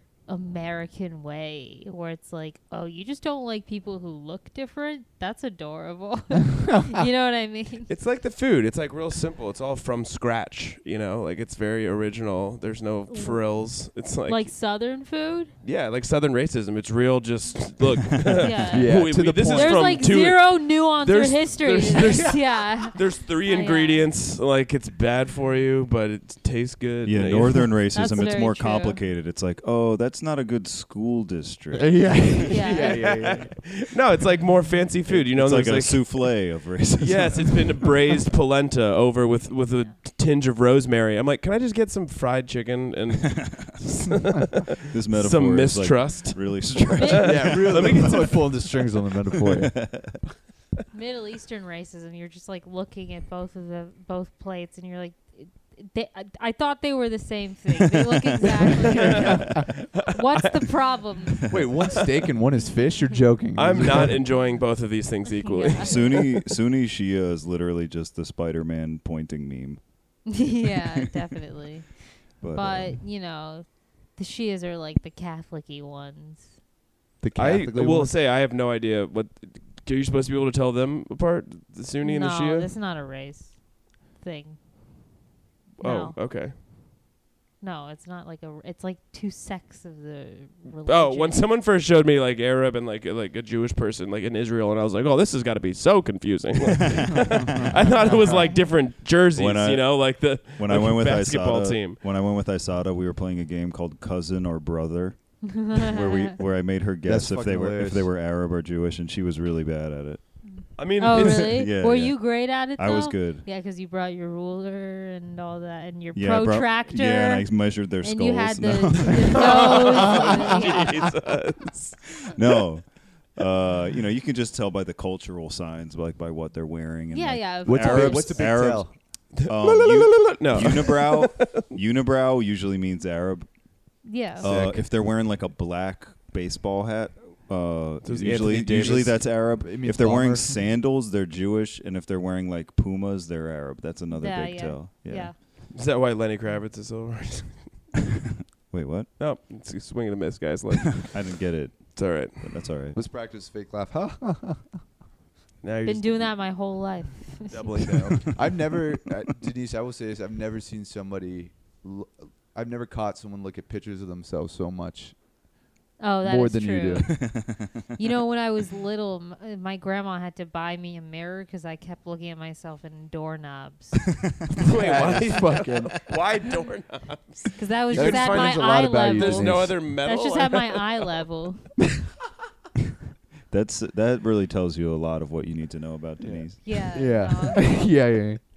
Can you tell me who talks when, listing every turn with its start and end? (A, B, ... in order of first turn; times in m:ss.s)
0:00.3-0:07.9 A
0:07.9-0:14.5 B
0:13.1-0:15.5 A
0:15.6-0:27.8 B
0:18.4-0:24.0 A
0:18.7-0:20.1 C
0:22.1-0:22.4 C
0:27.0-0:32.4 D
0:27.9-0:29.0 A
0:31.7-0:33.5 C
0:32.5-0:33.0 A
0:32.7-0:48.4 B
0:35.1-0:37.9 D
0:43.4-0:43.7 D
0:44.9-0:48.4 D
0:47.0-0:47.2 A
0:47.2-0:49.8 C
0:49.3-0:50.2 D
0:50.9-1:01.5 A
0:58.8-1:00.7 B
0:59.1-0:59.5 C
1:01.5-1:04.2 C
1:03.5-1:06.1 B
1:05.4-1:06.3 A
1:05.8-1:10.8 D
1:10.3-1:16.5 A
1:12.4-1:13.0 D
1:17.2-1:18.1 C
1:17.4-1:22.7 B
1:22.0-1:24.6 A
1:25.8-1:26.6 B
1:25.8-1:26.2 A
1:27.6-1:31.4 A
1:30.8-1:42.0 B
1:38.0-1:38.6 A
1:39.4-1:53.4 D
1:45.4-1:46.4 A
1:47.0-1:48.1 C
1:50.4-2:00.9 A
1:50.8-1:51.6 B
1:56.1-1:59.8 D
1:59.4-2:02.4 B
2:02.3-2:13.5 D
2:07.1-2:08.5 A
2:07.6-2:08.9 C
2:09.4-2:11.6 B
2:14.0-2:14.5 A
2:14.4-2:25.3 D
2:14.4-2:15.0 C
2:18.0-2:19.2 B
2:18.6-2:20.6 C
2:24.1-2:25.4 A
2:25.7-2:27.9 B
2:28.7-2:29.1 D
2:29.2-2:31.4 B
2:31.1-2:33.0 D
2:31.9-2:32.6 B
2:32.9-2:34.7 C
2:35.6-2:36.5 B
2:35.8-2:37.9 A
2:37.5-2:38.4 B
2:37.7-2:45.3 C
2:46.0-2:54.1 A
2:46.2-2:47.2 C
2:47.2-2:47.8 D
2:54.6-3:00.8 B
2:54.7-2:56.2 C
2:57.6-3:01.7 A
2:57.9-2:59.8 C
3:03.5-3:06.9 D
3:06.2-3:08.4 C
3:06.6-3:07.9 A